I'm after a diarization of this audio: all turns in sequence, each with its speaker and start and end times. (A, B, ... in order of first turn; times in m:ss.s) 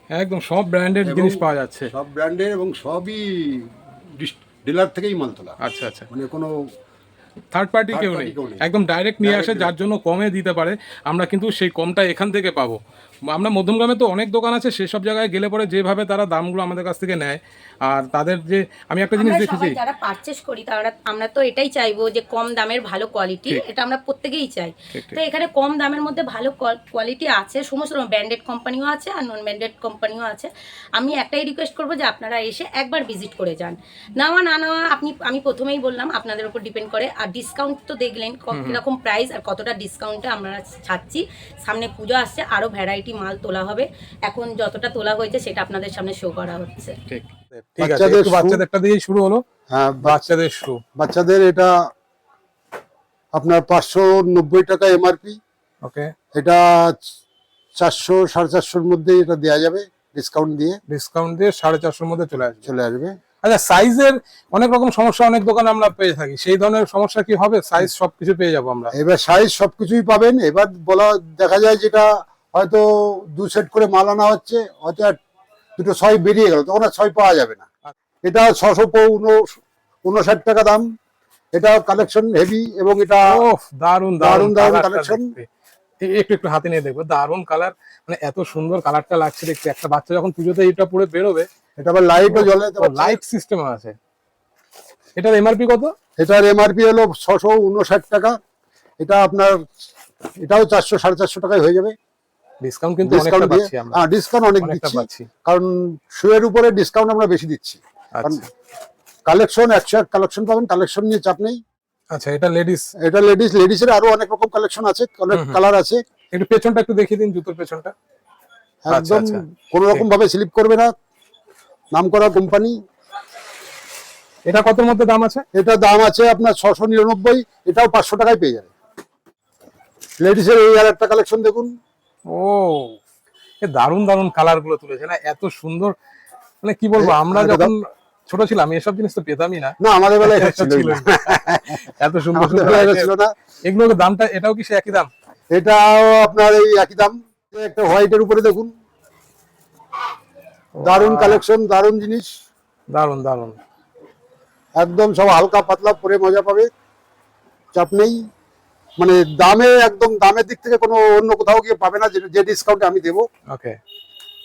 0:00.1-0:01.9 A
0:01.0-0:03.6 B
0:04.2-0:05.6 B
0:05.6-0:06.1 A
0:06.1-0:06.5 B
0:07.5-0:19.8 A
0:07.9-0:08.6 B
0:09.2-0:09.7 B
0:19.1-0:46.9 C
0:24.9-0:25.2 A
0:38.5-0:38.8 A
0:47.1-0:49.4 A
0:47.8-0:48.6 B
0:49.7-0:50.2 B
0:50.0-0:50.8 A
0:51.0-0:51.7 B
0:53.3-0:55.4 B
0:55.8-0:56.1 A
0:56.4-0:57.0 B
0:57.8-1:00.8 B
1:00.9-1:02.7 A
1:02.6-1:03.1 B
1:03.4-1:08.9 A
1:08.9-1:15.2 B
1:15.8-1:17.6 B
1:18.2-1:20.8 B
1:21.5-1:23.4 B
1:23.3-1:25.5 A
1:24.2-1:25.3 B
1:26.0-1:31.5 A
1:31.8-1:33.2 B
1:32.3-1:34.0 A
1:35.2-1:35.9 A
1:36.2-1:38.3 B
1:39.0-1:39.6 B
1:40.4-1:41.9 B
1:42.6-1:44.0 A
1:43.0-1:48.4 B
1:44.6-1:45.3 A
1:48.1-1:48.5 A
1:49.3-1:51.6 B
1:52.1-1:52.9 A
1:53.0-1:56.0 B
1:55.3-1:55.6 A
1:56.3-1:57.9 A
1:58.8-2:00.9 B
1:58.9-2:00.0 A
2:01.9-2:02.7 B
2:04.5-2:05.4 A
2:05.5-2:08.7 B
2:10.2-2:11.7 B
2:12.3-2:13.0 A
2:13.6-2:15.9 A
2:16.6-2:23.1 A
2:17.0-2:17.7 B
2:19.8-2:23.3 B
2:23.6-2:25.1 A
2:25.5-2:28.7 B
2:30.8-2:31.4 A
2:30.8-2:32.3 B
2:32.9-2:33.6 A
2:34.8-2:36.7 B
2:37.7-2:38.2 B
2:39.0-2:43.3 B
2:43.5-2:43.8 A